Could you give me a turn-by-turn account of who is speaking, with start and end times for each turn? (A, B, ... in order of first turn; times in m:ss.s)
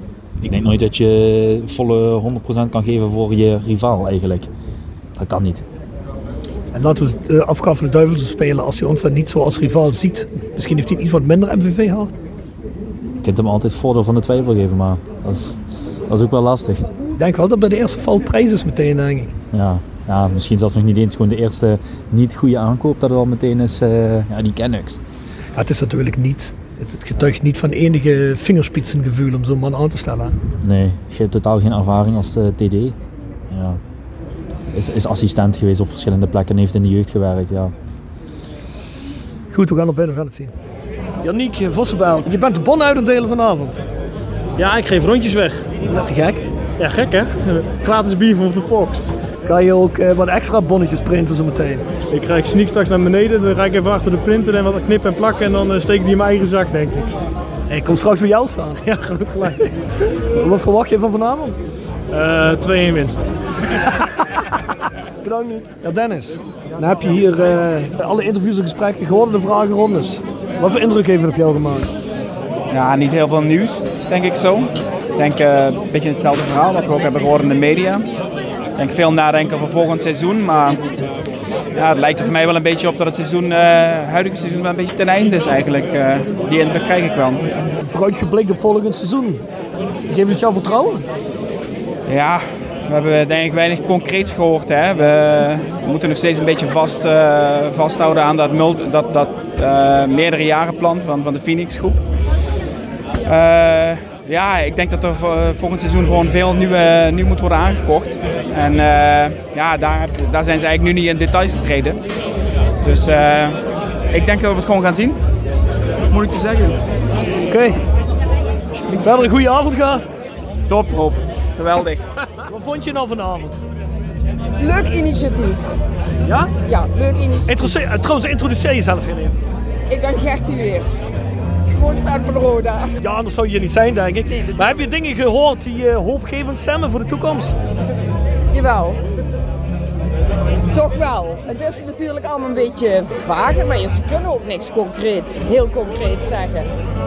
0:00.4-0:04.5 A
0:05.2-0:05.6 A
0:06.7-0:12.1 B
0:13.2-0:16.9 A
0:17.2-0:19.3 B
0:19.5-0:25.0 A
0:25.6-0:30.4 B
0:30.6-0:33.0 A
0:33.5-0:33.8 A
0:34.7-0:37.7 A
0:39.5-0:40.5 B
0:41.2-0:43.8 B
0:44.6-0:45.7 C
0:45.8-0:46.4 B
0:46.8-0:49.1 C
0:49.5-0:51.9 B
0:52.1-0:57.2 C
0:57.7-0:59.7 B
1:00.3-1:01.6 B
1:02.1-1:03.2 C
1:05.2-1:11.9 B
1:12.7-1:18.1 D
1:18.8-1:20.8 D
1:21.7-1:27.5 D
1:27.8-1:29.4 B
1:30.1-1:31.0 B
1:32.1-1:42.0 D
1:43.2-1:52.0 D
1:52.8-1:55.2 D
1:56.1-1:56.8 D
1:57.5-1:57.8 B
1:59.0-2:00.1 B
2:00.7-2:02.0 D
2:02.4-2:03.6 B
2:04.6-2:05.6 E
2:06.2-2:06.5 B
2:06.6-2:07.8 E
2:07.5-2:09.4 B
2:09.9-2:11.1 E
2:11.7-2:12.9 E
2:13.0-2:17.5 B
2:18.5-2:19.0 E
2:20.7-2:26.7 E